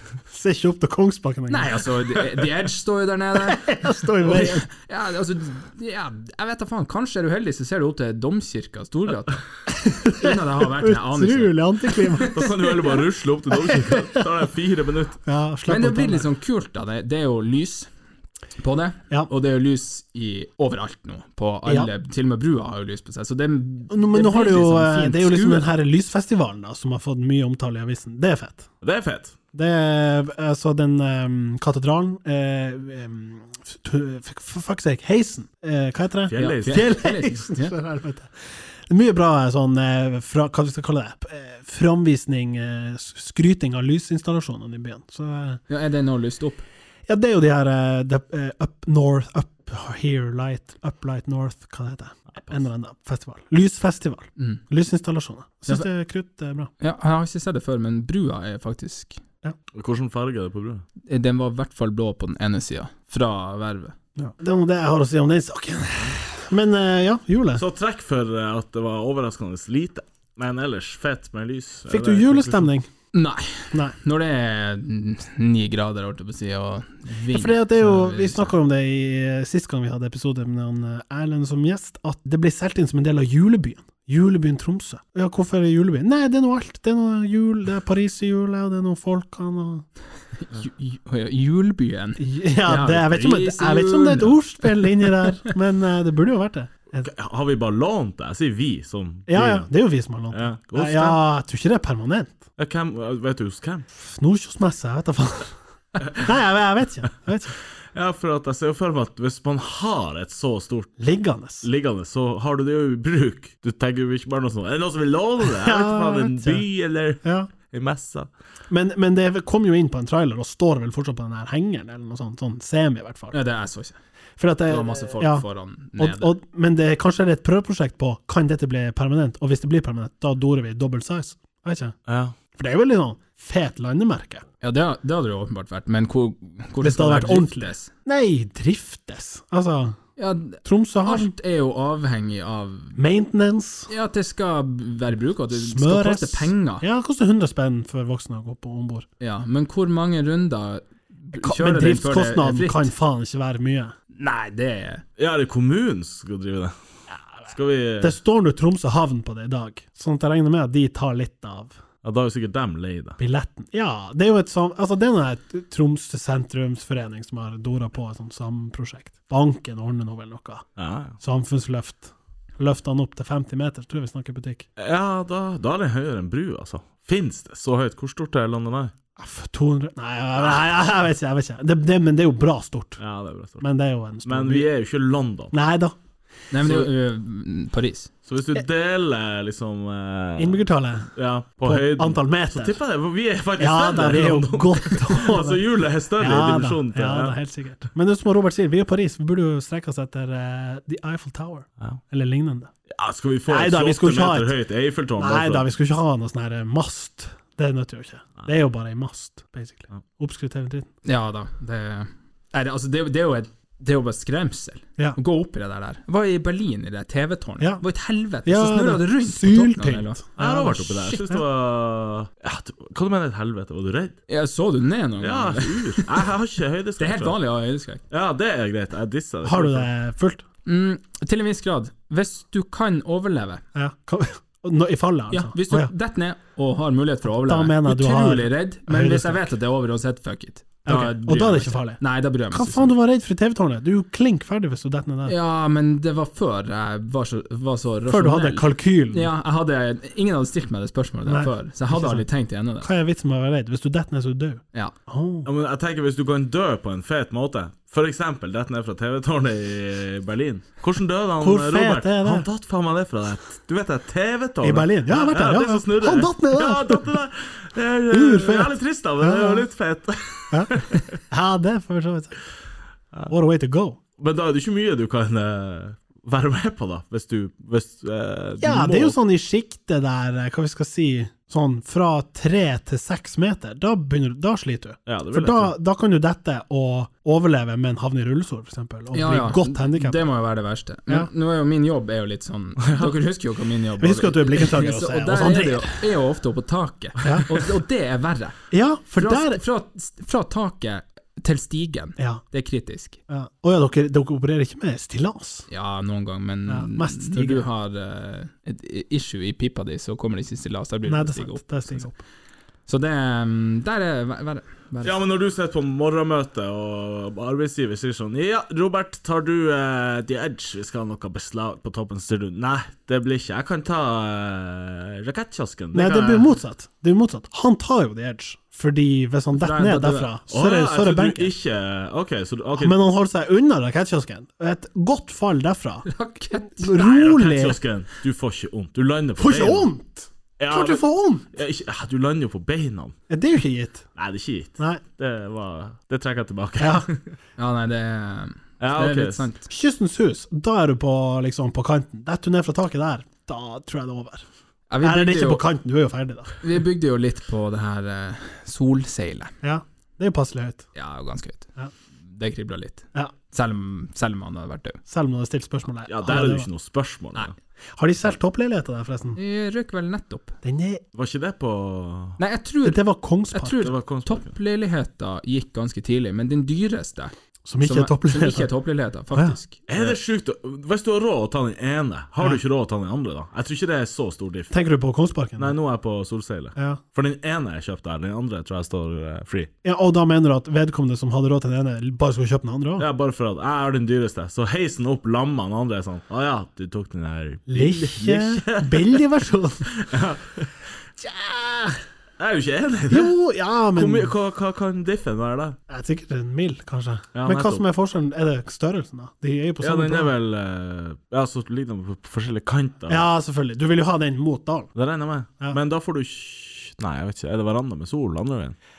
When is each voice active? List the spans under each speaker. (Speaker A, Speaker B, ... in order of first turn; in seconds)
Speaker A: 0.3-1.8, 3.4-4.7, 9.7-14.3, 15.3-16.3, 23.9-28.7, 29.5-45.6, 47.1-56.7, 64.2-67.6, 71.9-72.9, 77.3-89.8, 92.2-97.1, 99.3-102.4, 104.0-105.5, 106.2-107.5, 111.0-111.7, 115.4-116.7, 117.2-117.5, 118.7-123.3, 124.4-125.5, 126.0-132.0, 132.6-134.4, 136.8-140.0, 140.6-141.3, 143.0-143.9, 145.5-149.1, 151.3-153.9, 158.0-161.8, 163.2-170.6, 171.2-174.7, 179.2-183.0, 183.6-184.7, 185.5-186.0, 190.4-191.1, 191.6-192.8, 193.6-195.6, 196.2-202.7, 203.5-204.5, 205.2-210.9, 218.4-221.4, 229.4-230.4, 233.8-235.9, 237.3-239.5, 240.9-245.3, 248.1-249.3, 251.3-252.2, 252.8-255.5, 261.4-262.5, 264.6-267.1, 268.1-269.7, 270.5-272.4, 273.3-274.0, 278.6-290.2, 294.0-296.1, 297.2-297.5, 298.7-299.6, 303.3-305.7, 306.7-307.7, 311.1-312.2, 325.9-331.5, 332.8-336.1, 336.6-337.8, 339.4-341.5, 343.3-344.1, 346.8-347.1, 349.7-354.4, 355.0-356.6, 359.6-360.9, 365.1-366.7, 368.0-369.4, 370.6-371.0, 372.8-373.7, 377.6-378.7, 379.3-380.1, 384.7-385.8, 386.8-387.0, 389.8-393.1, 397.7-399.9, 401.2-402.0, 403.1-404.3, 405.9-410.3, 413.1-414.9
Speaker B: 1.5-9.4, 10.0-12.5, 15.7-17.9, 18.6-25.7, 36.4-37.7, 45.7-46.6, 56.8-59.2, 61.0-64.0, 73.1-78.5, 90.4-95.5, 123.3-124.0, 124.7-126.3, 134.6-137.9, 140.2-143.0, 143.9-146.8, 149.2-152.9, 154.1-155.0, 186.5-188.1, 211.1-220.2, 224.3-226.3, 227.0-228.0, 230.7-233.6, 235.3-242.9, 245.3-252.9, 289.1-298.6, 299.2-303.2, 305.7-312.0, 312.9-315.2, 329.6-330.3, 336.1-337.1, 347.6-349.7, 354.9-355.6, 356.6-359.5, 361.0-361.7, 362.3-365.0, 369.4-370.6, 372.4-373.0, 373.5-380.1
Speaker C: 12.3-15.2, 28.8-29.4, 36.3-36.9, 59.7-60.9, 67.6-72.7, 97.0-99.7, 100.3-101.2, 102.6-103.9, 106.0-106.4, 107.9-111.0, 111.6-118.3, 132.1-132.3, 155.2-156.7, 157.4-158.2, 162.0-163.2, 170.8-171.2, 174.8-178.9, 183.0-183.6, 184.2-185.5, 186.6-186.9, 188.3-190.6, 191.2-197.4, 202.9-205.7, 220.4-224.2, 225.2-227.4, 228.1-229.9, 255.4-271.2, 274.2-279.2, 285.1-285.7, 292.8-293.1, 315.0-326.5, 330.5-333.0, 337.1-339.9, 340.6-343.1, 344.2-347.3, 348.8-349.5, 366.1-367.5, 371.1-372.4, 373.8-374.5, 379.9-384.7, 385.6-389.7, 393.0-399.3, 399.8-400.8, 402.4-403.3, 403.9-405.8, 407.3-407.8, 409.8-413.3, 414.9-418.8